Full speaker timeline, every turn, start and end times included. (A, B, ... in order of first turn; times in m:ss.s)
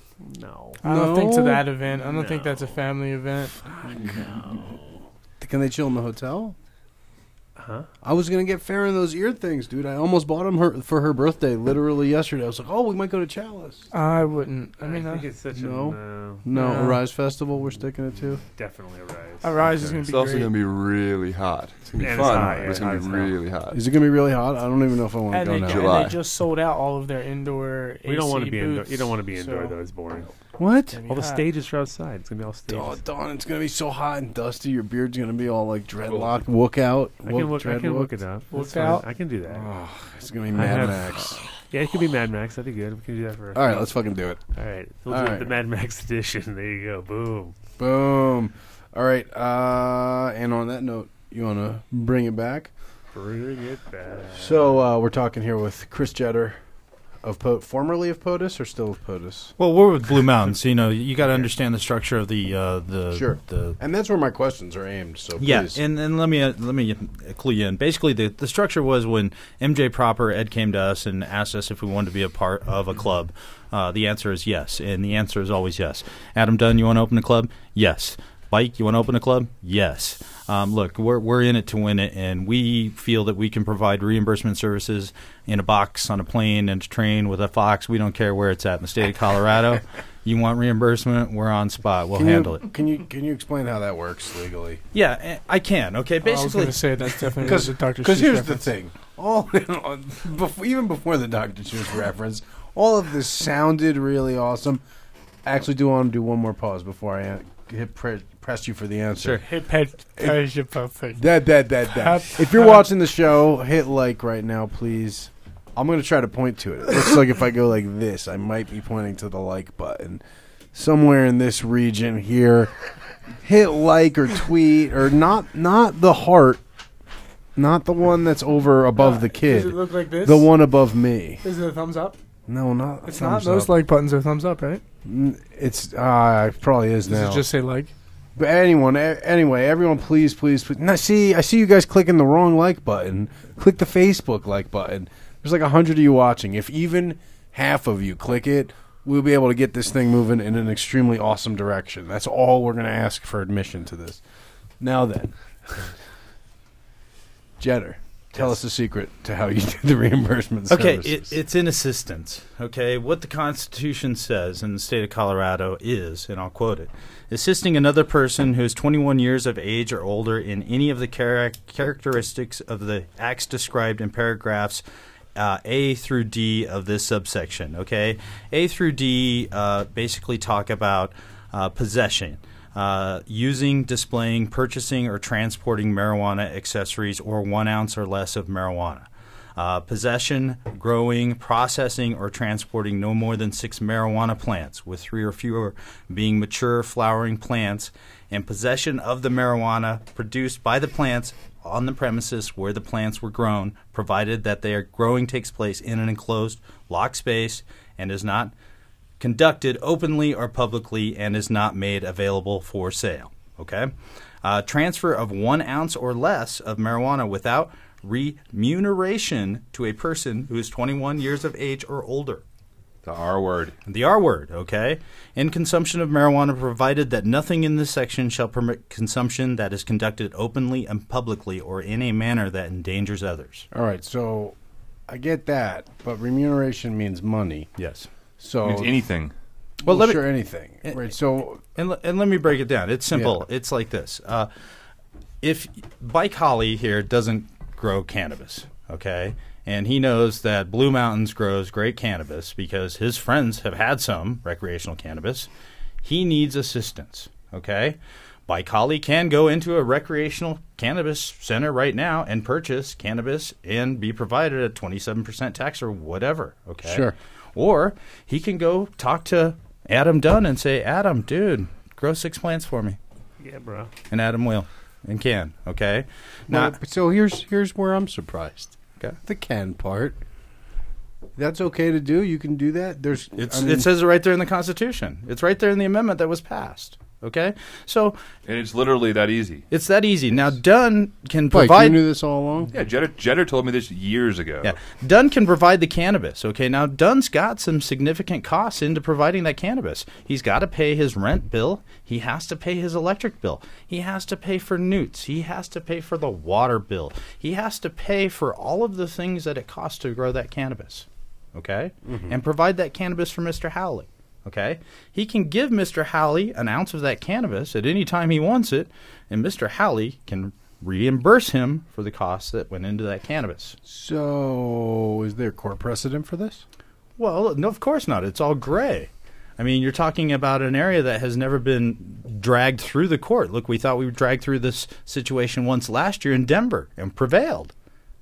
0:00.2-0:00.8 A
0:00.8-0:03.7 B
0:00.8-0:01.7 C
0:01.9-0:02.7 A
0:03.6-0:05.1 A
0:04.0-0:04.7 C
0:05.4-0:06.6 C
0:07.6-0:07.9 A
0:08.0-0:13.9 C
0:13.9-0:15.2 B
0:14.8-0:16.7 A
0:15.5-0:18.4 C
0:16.5-0:17.0 B
0:17.6-0:19.6 A
0:19.4-0:20.5 B
0:19.8-0:23.8 D
0:21.9-0:23.3 A
0:23.7-0:26.1 C
0:25.3-0:29.8 B
0:25.7-0:26.2 D
0:28.0-0:30.3 A
0:30.6-0:31.0 C
0:30.9-0:31.5 B
0:31.1-0:33.0 A
0:32.7-0:41.5 C
0:36.0-0:36.3 E
0:37.2-0:39.7 A
0:38.5-0:39.1 B
0:40.5-0:47.6 A
0:43.5-0:45.5 C
0:47.8-0:52.7 C
0:53.1-0:54.9 A
0:54.3-0:56.6 C
0:57.2-0:59.6 C
0:59.6-1:03.8 F
1:03.1-1:05.8 C
1:05.4-1:32.6 F
1:32.1-1:34.8 C
1:34.9-1:37.3 F
1:36.2-1:38.7 B
1:37.4-1:44.8 C
1:45.4-1:50.6 C
1:49.2-1:49.4 F
1:49.4-1:52.8 B
1:51.1-2:00.2 C
2:00.7-2:06.6 C
2:07.6-2:11.4 C
2:09.0-2:10.6 B
2:11.4-2:12.2 B
2:12.5-2:13.8 C
2:13.0-2:14.8 B
2:15.0-2:17.4 C
2:17.1-2:17.9 B
2:18.4-2:34.2 C
2:34.8-2:36.0 C
2:37.6-2:41.4 C
2:38.4-2:38.6 F
2:40.7-2:54.8 F
2:55.4-3:28.5 F
3:29.2-3:33.9 F
3:34.4-3:42.4 F
3:43.0-3:43.7 E
3:43.8-3:53.7 F
3:53.7-3:54.6 C
3:55.1-3:57.7 C
3:57.8-3:58.1 F
3:58.4-3:59.2 C
3:58.6-3:59.3 E
3:59.8-4:01.1 F
3:59.8-4:01.6 C
4:01.8-4:04.5 F
4:03.1-4:03.4 C
4:05.4-4:15.5 F
4:16.0-4:33.0 F
4:26.8-4:27.1 C
4:33.4-4:33.9 A
4:34.1-4:36.8 F
4:36.5-4:40.2 C
4:41.4-4:43.9 C
4:43.4-4:48.2 F
4:48.4-4:49.6 E
4:49.7-4:52.0 F
4:51.5-4:52.7 C
4:52.7-4:54.8 E
4:54.6-5:23.8 F
5:12.1-5:12.4 A
5:23.8-5:26.6 C
5:27.2-5:37.7 F